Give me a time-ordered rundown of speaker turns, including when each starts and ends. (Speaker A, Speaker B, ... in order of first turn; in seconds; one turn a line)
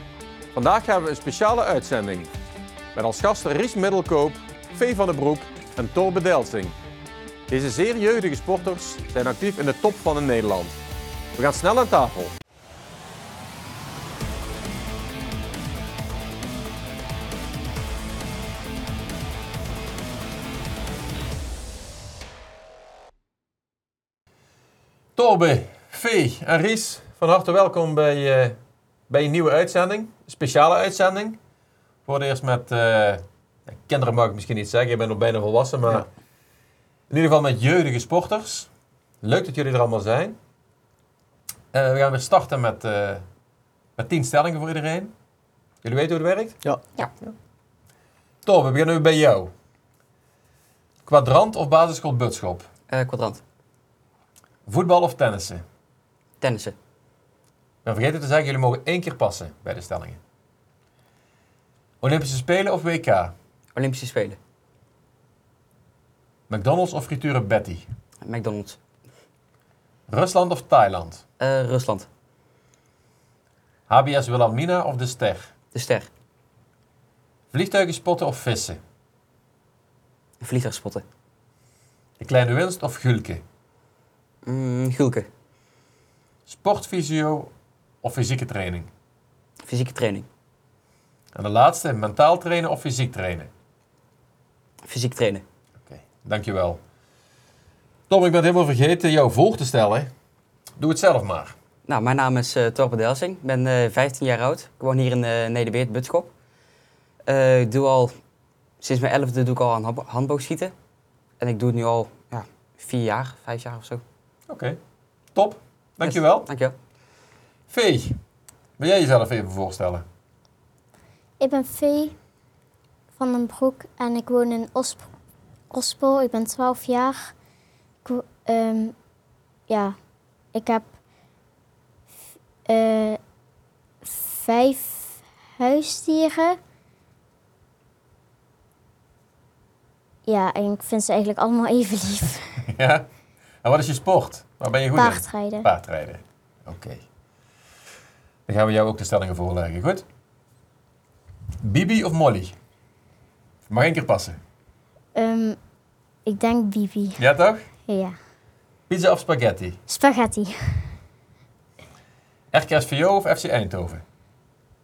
Speaker A: 0.5-2.3
Speaker A: 3.0-6.8
Speaker A: 7.5-10.8
Speaker A: 11.4-12.3
Speaker A: 25.2-28.6
Speaker A: 29.1-31.4
Speaker A: 32.1-36.1
Speaker A: 37.1-38.7
Speaker A: 39.2-40.4
Speaker A: 41.7-43.2
Speaker A: 44.0-45.1
Speaker A: 45.8-46.6
Speaker A: 48.4-49.5
Speaker A: 51.1-52.7
Speaker B: 52.9-53.4
Speaker A: 54.7-55.6
Speaker B: 56.4-56.8
Speaker A: 57.9-60.2
Speaker A: 62.0-63.4
Speaker B: 63.8-64.4
Speaker A: 66.5-67.9
Speaker B: 68.2-68.8
Speaker A: 70.1-71.2
Speaker B: 71.4-72.1
Speaker A: 73.9-75.5
Speaker B: 75.7-76.1
Speaker A: 77.5-78.8
Speaker B: 80.4-81.0
Speaker A: 82.2-83.4
Speaker B: 84.5-85.3
Speaker A: 86.5-87.5
Speaker A: 88.0-88.9
Speaker B: 89.7-90.3
Speaker A: 91.3-93.5
Speaker B: 94.9-95.4
Speaker A: 95.8-96.8
Speaker A: 98.1-100.1
Speaker A: 100.8-101.5
Speaker B: 101.9-106.3
Speaker B: 107.3-108.1
Speaker B: 108.8-110.7
Speaker B: 111.4-114.0
Speaker A: 114.5-114.8
Speaker A: 115.3-116.5
Speaker B: 116.0-116.8
Speaker A: 117.7-118.2
Speaker A: 118.8-120.0
Speaker C: 121.4-122.2
Speaker C: 123.2-125.1
Speaker C: 125.7-127.3
Speaker C: 128.1-128.9
Speaker C: 129.7-130.0
Speaker C: 130.5-130.9
Speaker C: 132.7-133.2
Speaker C: 134.1-136.6
Speaker C: 140.3-142.6
Speaker A: 142.7-143.1
Speaker A: 143.6-147.0
Speaker C: 144.9-145.7
Speaker A: 148.5-150.1
Speaker A: 151.6-152.6
Speaker A: 153.7-154.4
Speaker C: 155.2-155.6
Speaker C: 156.3-157.2
Speaker A: 157.2-157.6
Speaker C: 157.9-158.2
Speaker A: 158.9-159.8
Speaker C: 159.9-160.9
Speaker A: 162.5-164.0